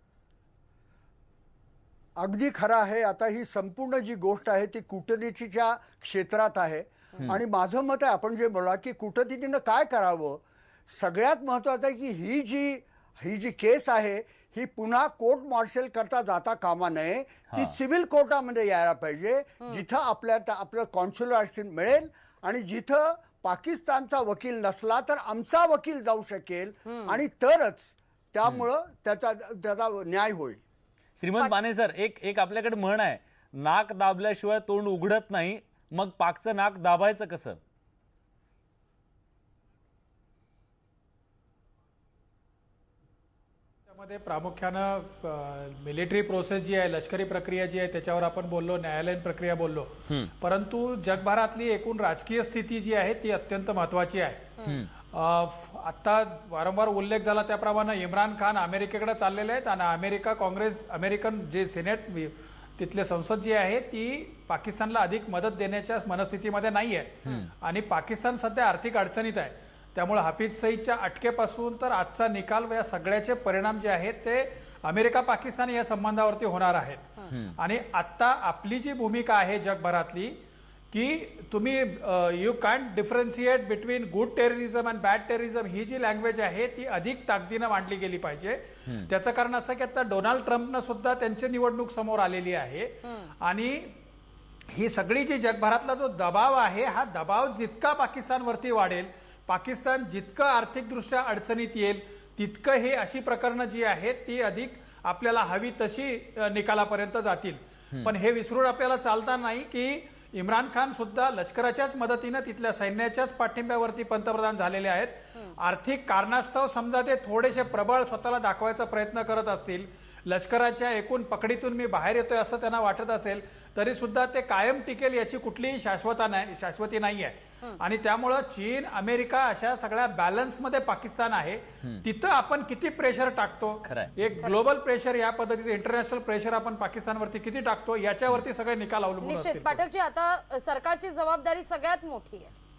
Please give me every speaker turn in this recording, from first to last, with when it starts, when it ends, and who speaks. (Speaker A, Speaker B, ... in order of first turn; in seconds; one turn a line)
Speaker A: 2.1-30.6
Speaker B: 17.5-17.8
Speaker C: 26.9-27.1
Speaker B: 31.2-37.6
Speaker D: 43.9-54.5
Speaker D: 55.1-80.4
Speaker B: 67.2-67.5
Speaker D: 80.9-94.0
Speaker C: 93.0-93.3
Speaker D: 94.7-139.8
Speaker B: 133.8-134.1
Speaker C: 139.2-142.5